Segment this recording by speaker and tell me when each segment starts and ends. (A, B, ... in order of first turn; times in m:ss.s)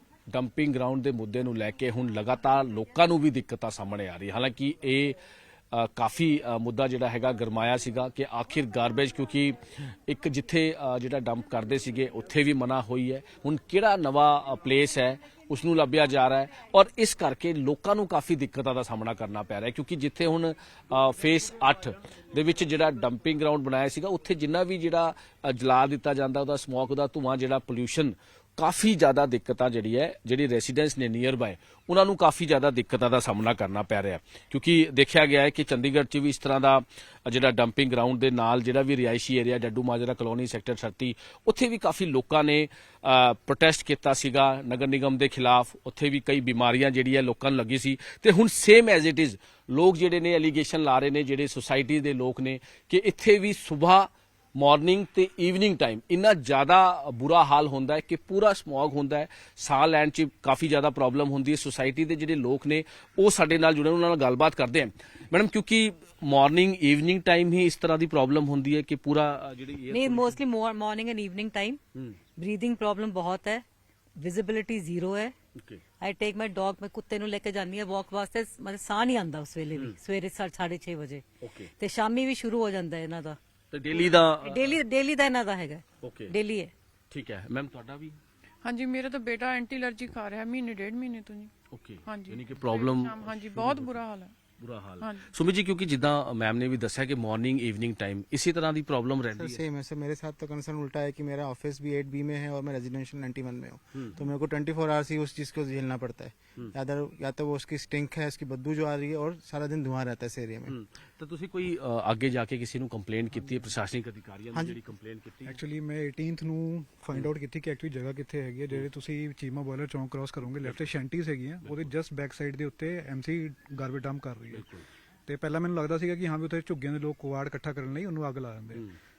0:00.3-0:05.2 A
0:05.7-1:10.4 A
1:09.9-1:11.8 B
1:12.4-1:13.6 B
1:14.2-1:15.3 B
1:16.0-1:21.2 B
1:21.4-1:21.7 A
1:21.8-1:23.4 B
1:23.7-1:24.7 A
1:24.0-1:26.7 B
1:26.0-1:26.3 A
1:27.1-1:28.2 A
1:28.6-1:31.5 C
1:31.7-1:34.0 A
1:32.1-1:34.3 C
1:34.6-1:39.6 A
1:35.0-1:35.3 C
1:39.3-1:50.7 D
1:50.6-1:55.6 A
1:55.4-2:04.7 E
2:04.5-2:04.8 A
2:05.3-2:08.9 E